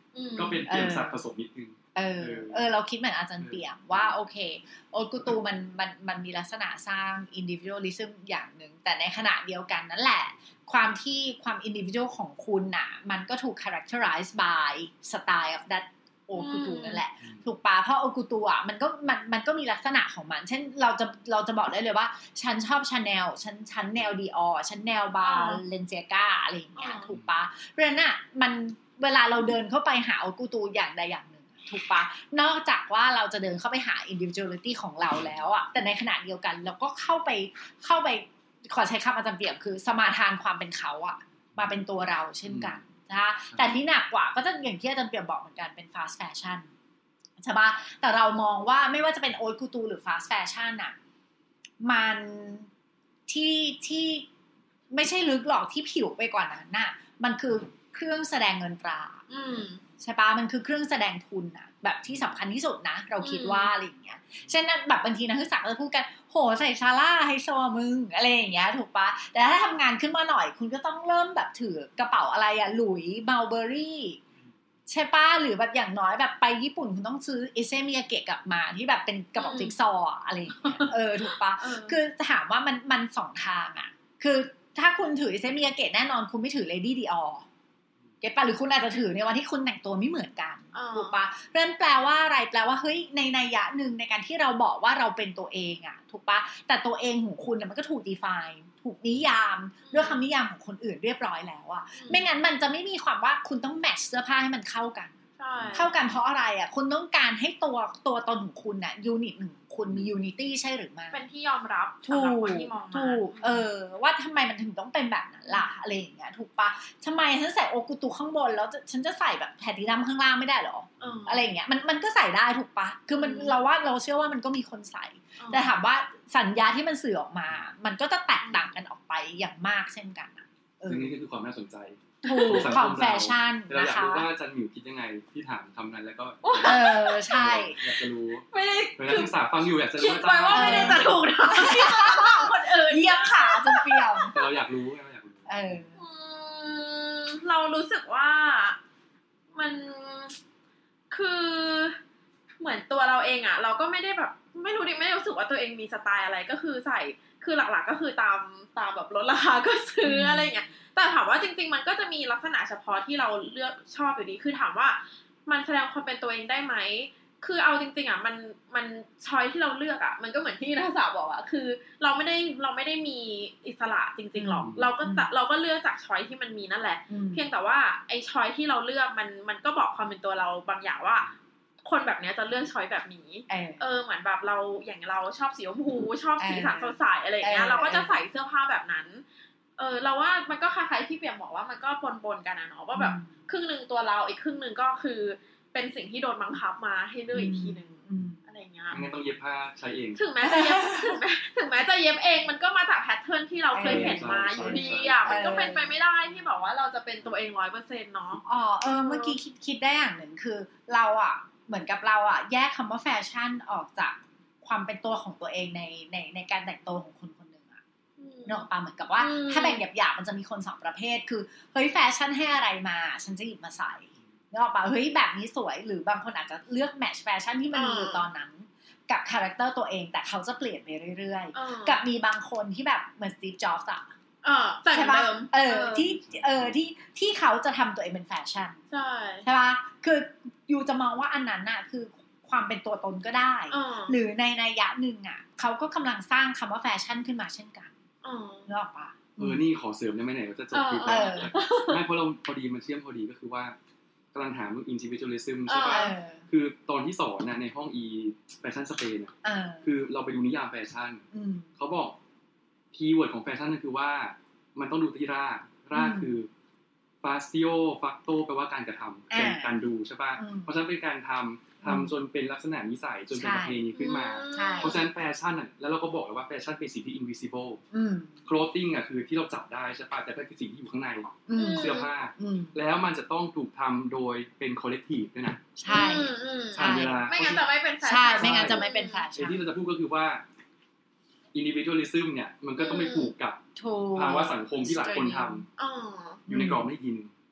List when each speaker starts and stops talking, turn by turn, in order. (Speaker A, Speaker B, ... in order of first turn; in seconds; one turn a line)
Speaker A: 0.1-0.7
Speaker B: 0.4-2.7
Speaker C: 0.7-1.2
Speaker C: 1.9-46.7
Speaker B: 3.4-4.2
Speaker A: 16.4-17.0
Speaker A: 25.2-25.6
Speaker A: 26.8-27.1
Speaker B: 42.5-42.8
Speaker C: 47.4-51.0
Speaker C: 51.8-52.7
Speaker C: 53.3-54.3
Speaker C: 54.9-59.2
Speaker A: 59.3-59.8
Speaker C: 60.0-74.2
Speaker A: 63.2-63.7
Speaker C: 74.9-87.5
Speaker A: 79.4-79.8
Speaker A: 80.6-80.9
Speaker A: 81.6-82.0
Speaker C: 88.2-105.1
Speaker A: 90.7-91.2
Speaker A: 99.8-100.2
Speaker A: 102.0-102.3
Speaker A: 105.4-105.9
Speaker B: 105.6-105.9
Speaker C: 105.7-111.2
Speaker A: 111.1-113.7
Speaker C: 112.0-131.2
Speaker A: 115.5-115.7
Speaker A: 121.0-121.5
Speaker A: 123.2-123.6
Speaker A: 125.4-125.7
Speaker A: 128.4-128.7
Speaker B: 130.9-141.1
Speaker A: 132.2-132.7
Speaker C: 132.2-134.3
Speaker A: 136.4-137.4
Speaker C: 136.6-137.8
Speaker A: 138.5-139.3
Speaker A: 140.0-144.3
Speaker C: 140.5-144.5
Speaker B: 144.3-145.8
Speaker C: 145.5-145.9
Speaker A: 146.0-148.8
Speaker A: 149.5-150.4
Speaker A: 151.1-152.0
Speaker A: 152.6-181.3
Speaker C: 160.0-160.7
Speaker C: 174.3-175.3
Speaker B: 174.6-174.9
Speaker C: 177.1-177.5
Speaker A: 181.8-189.2
Speaker C: 183.5-183.8
Speaker C: 186.4-188.2
Speaker A: 189.8-199.1
Speaker C: 192.9-193.3
Speaker C: 197.3-198.4
Speaker B: 198.9-200.2
Speaker A: 200.2-208.4
Speaker C: 200.5-201.2
Speaker C: 203.7-206.0
Speaker B: 203.8-205.7
Speaker C: 208.4-217.8
Speaker A: 209.0-209.3
Speaker A: 218.2-219.8
Speaker C: 218.5-234.1
Speaker A: 227.7-228.3
Speaker A: 231.5-232.0
Speaker A: 234.4-236.1
Speaker C: 234.9-238.8
Speaker B: 235.9-236.8
Speaker A: 238.9-239.5
Speaker C: 239.4-247.9
Speaker A: 243.7-244.2
Speaker A: 248.2-248.7
Speaker C: 248.7-249.7
Speaker B: 249.4-253.8
Speaker A: 250.7-252.0
Speaker C: 251.1-251.5
Speaker B: 254.3-261.3
Speaker A: 255.7-256.1
Speaker C: 255.9-256.5
Speaker C: 259.4-259.9
Speaker C: 261.3-261.7
Speaker B: 261.8-262.2
Speaker B: 262.9-266.5
Speaker C: 265.9-266.3
Speaker B: 267.2-277.8
Speaker C: 269.3-269.7
Speaker C: 270.4-270.7
Speaker C: 271.8-272.1
Speaker C: 273.3-273.8
Speaker A: 273.9-275.0
Speaker C: 274.5-275.0
Speaker C: 277.9-278.4
Speaker B: 278.4-285.7
Speaker C: 281.5-282.8
Speaker A: 281.6-282.1
Speaker C: 285.8-289.6
Speaker A: 285.9-289.3
Speaker B: 286.8-287.7
Speaker B: 288.4-288.9
Speaker B: 289.4-290.4
Speaker B: 291.5-295.7
Speaker A: 292.8-293.3
Speaker C: 293.8-295.6
Speaker A: 295.8-296.4
Speaker C: 296.5-296.9
Speaker B: 296.5-297.3